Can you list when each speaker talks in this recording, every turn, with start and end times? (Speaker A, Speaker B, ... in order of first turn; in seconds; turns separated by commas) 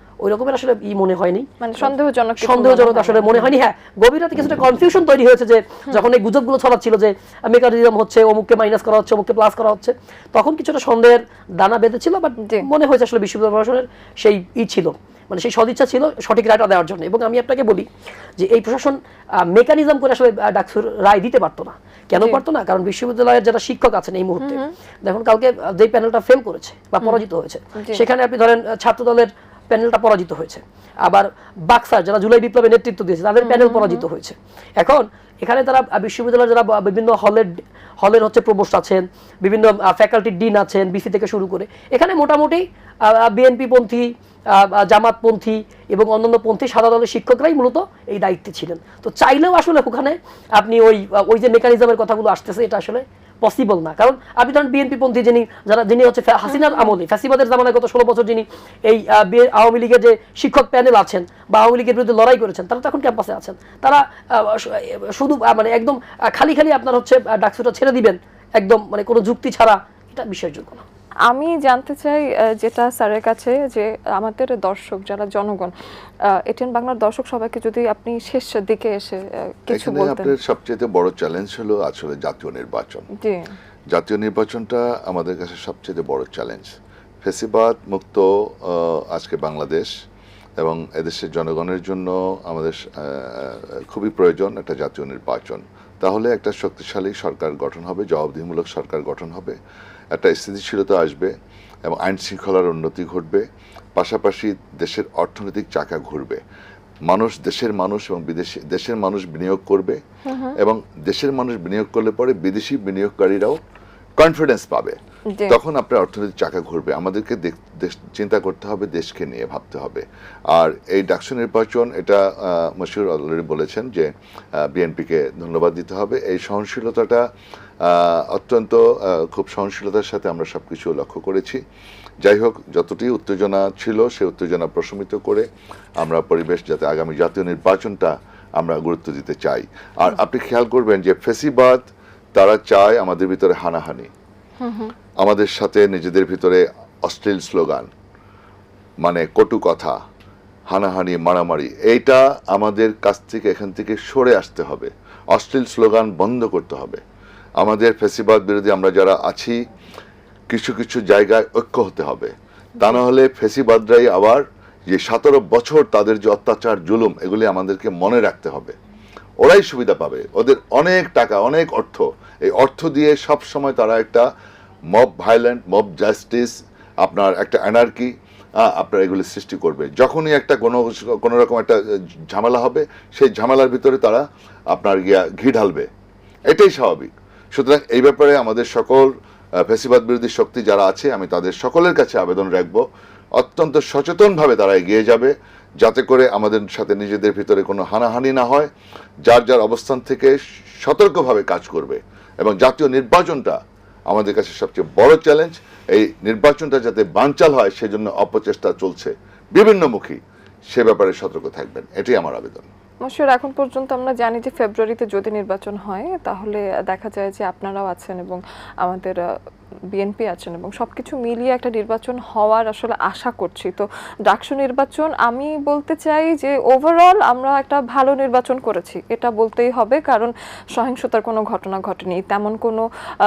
Speaker A: 0.2-70.8, Speaker B: 1.6-3.6, Speaker B: 12.4-12.7, Speaker B: 24.4-24.7, Speaker B: 27.8-28.0, Speaker B: 33.4-34.0, Speaker B: 71.3-75.7, Speaker B: 76.3-80.4, Speaker C: 79.7-83.1, Speaker B: 83.2-83.5, Speaker C: 83.9-89.9, Speaker C: 90.6-99.6, Speaker C: 100.1-101.3, Speaker C: 101.9-103.4, Speaker C: 104.0-106.4, Speaker C: 107.1-110.0, Speaker B: 110.3-110.6, Speaker C: 110.6-113.6, Speaker C: 114.2-115.0, Speaker B: 115.3-115.6, Speaker C: 115.5-127.2, Speaker C: 127.8-131.6, Speaker C: 132.2-135.5, Speaker C: 136.0-141.8, Speaker C: 142.3-144.1, Speaker B: 144.6-144.9, Speaker C: 145.2-147.9, Speaker C: 149.0-150.0, Speaker C: 150.7-157.0, Speaker C: 157.6-159.6, Speaker C: 160.5-168.8, Speaker C: 169.4-174.3, Speaker C: 174.9-181.8, Speaker C: 182.3-185.9, Speaker C: 186.5-192.8, Speaker C: 193.4-198.7, Speaker C: 199.3-210.2, Speaker C: 210.7-212.7, Speaker B: 213.0-219.2, Speaker B: 219.9-232.8